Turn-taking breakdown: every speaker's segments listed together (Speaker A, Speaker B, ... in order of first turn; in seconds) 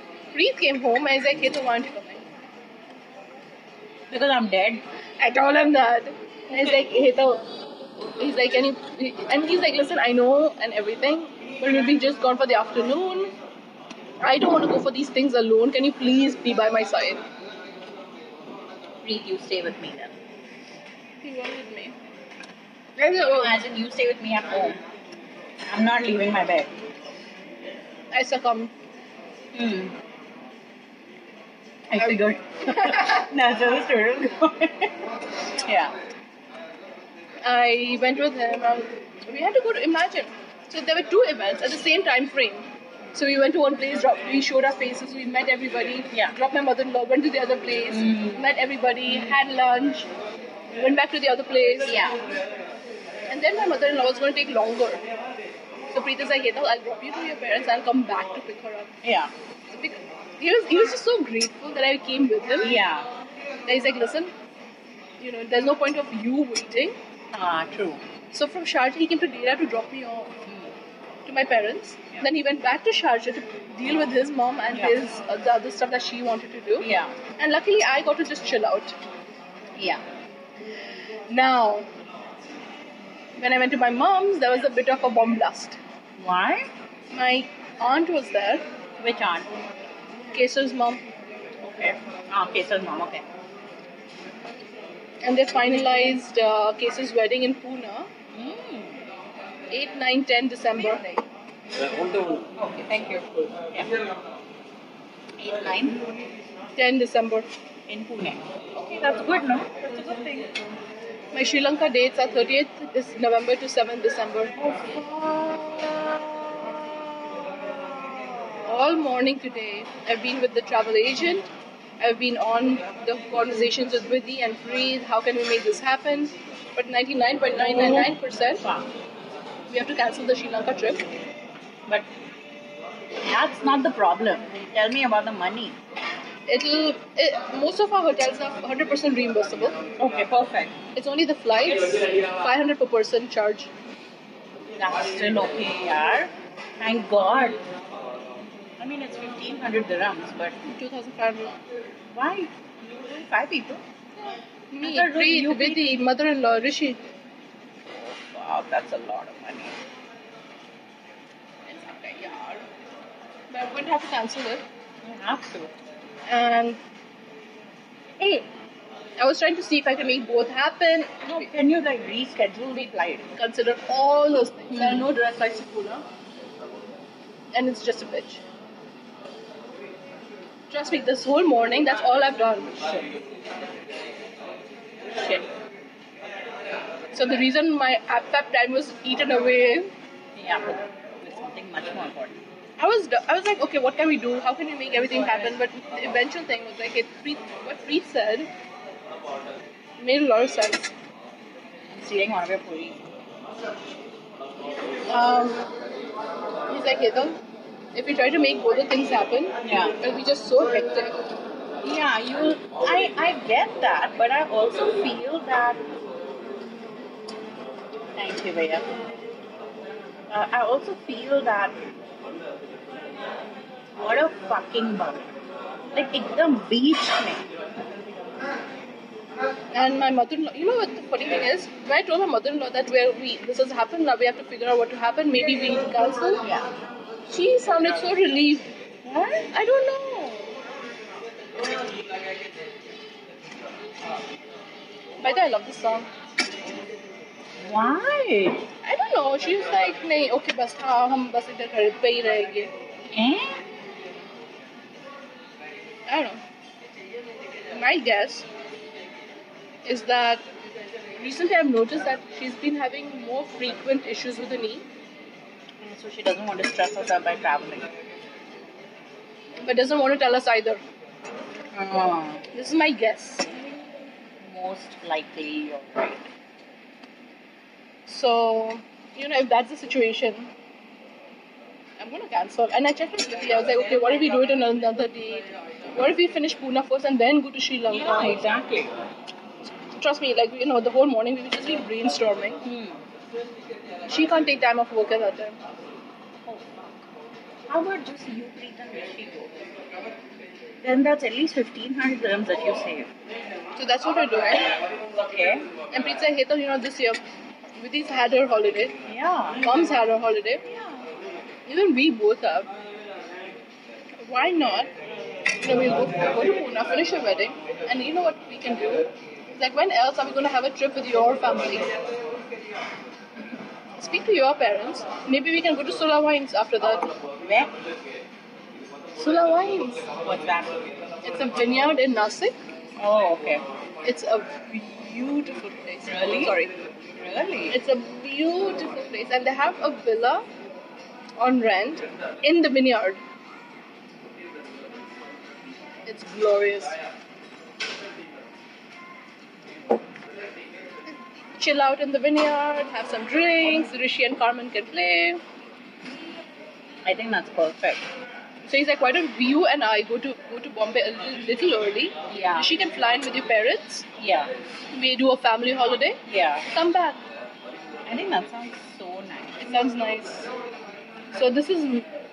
Speaker A: 0.3-2.2, 5.2-7.4, 8.2-13.3, 14.2-17.2, 21.2-21.9, 23.0-23.5, 28.1-28.7, 32.6-33.2, 37.4-50.1, 50.7-52.0, 53.3-55.0, 55.9-58.9, 59.7-62.8, 63.6-64.3, 65.2-67.0, 68.3-70.3, 71.2-76.9, 77.4-78.9, 81.3-81.9, 83.4-85.8, 87.1-88.6, 90.3-91.0, 95.2-98.1, 99.7-101.2, 106.8-107.5, 111.3-114.5, 118.6-121.5, 122.0-128.6, 129.7-131.0, 136.5-139.8, 140.9-143.7, 150.7-151.5, 154.7-157.0, 161.7-162.6, 163.5-164.6, 166.3-166.8, 169.2-171.4, 173.3-176.0, 177.5-178.4, 180.7-183.0, 187.1-189.9, 192.8-198.5, 200.0-200.9, 205.1-205.7, 206.7-207.4, 207.9-211.2, 229.7-236.4, 237.3-238.7, 239.5-240.6, 245.2-246.1, 248.8-252.7, 256.1-256.4, 257.7-258.5, 259.8-260.4, 261.2-264.8, 269.6-270.8, 272.5-273.5, 278.1-280.5, 282.0-288.4, 289.9-292.6, 294.1-295.6, 303.8-304.8, 305.9-307.2, 307.8-308.9, 309.6-310.6, 311.7-312.7, 314.3-314.9, 315.6-321.9, 324.0-327.1, 329.2-330.1, 331.2-332.6, 334.0-336.7, 337.7-340.4, 341.4-343.2, 346.1-346.9, 351.1-355.4, 358.6-364.1, 364.9-367.2, 369.6-370.5, 371.3-372.1
Speaker B: 4.1-4.8, 19.0-20.1, 23.1-24.8, 25.7-26.7, 29.5-29.9, 31.9-34.9, 35.6-35.9, 47.9-48.4, 49.1-49.3, 51.9-52.2, 59.0-59.3, 62.6-63.1, 67.3-68.0, 70.5-70.7, 76.8-77.2, 79.8-80.0, 86.2-86.7, 89.0-89.5, 91.6-93.2, 98.3-99.0, 102.5-103.9, 105.4-106.0, 107.9-110.5, 114.6-116.2, 127.5-128.9, 133.2-135.8, 140.0-140.8, 144.8-147.6, 148.8-150.6, 152.1-153.8, 154.8-155.9, 157.9-159.8, 165.0-165.7, 168.2-168.5, 171.2-173.3, 174.7-175.0, 185.1-185.5, 190.4-192.4, 201.9-203.0, 209.6-210.0, 211.8-215.8, 218.1-218.9, 220.3-221.8, 224.0-225.3, 225.9-227.4, 236.4-236.7, 239.1-239.5, 247.6-248.6, 253.1-253.6, 265.8-267.9, 271.7-272.4, 274.4-276.2, 287.9-288.9, 292.6-293.0, 296.4-297.0, 297.7-299.6, 300.8-303.1, 305.1-305.6, 309.1-309.7, 310.7-311.1, 327.4-327.7, 330.2-330.9, 333.0-333.6, 336.1-336.5, 337.2-337.8, 357.1-358.1, 362.3-362.7, 364.2-364.5, 366.3-366.7, 368.1-369.6